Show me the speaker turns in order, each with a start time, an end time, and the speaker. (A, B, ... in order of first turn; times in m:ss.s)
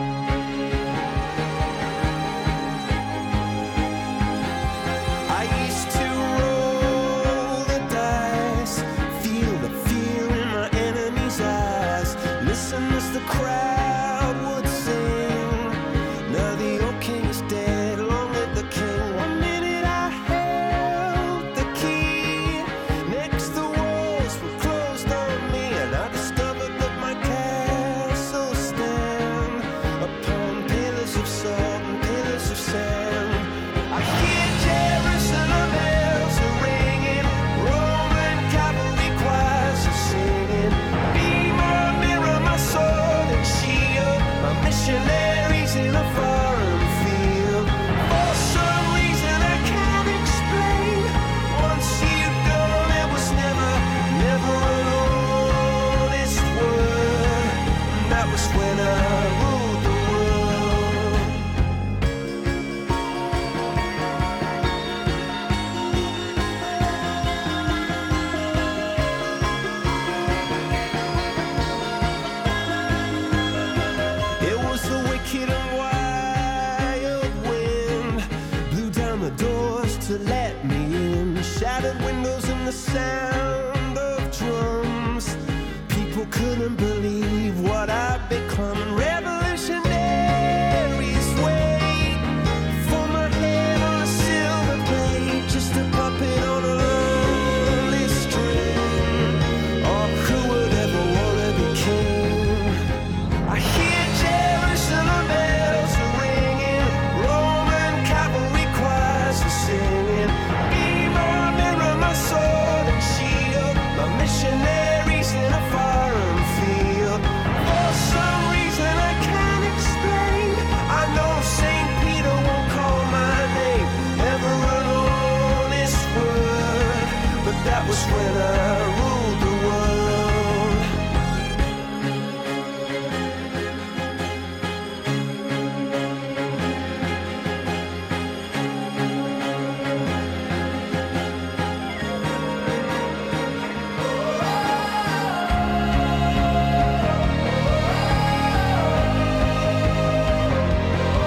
0:05.3-1:01.5 A
1:14.4-1:42.8 A
1:43.5-2:10.9 A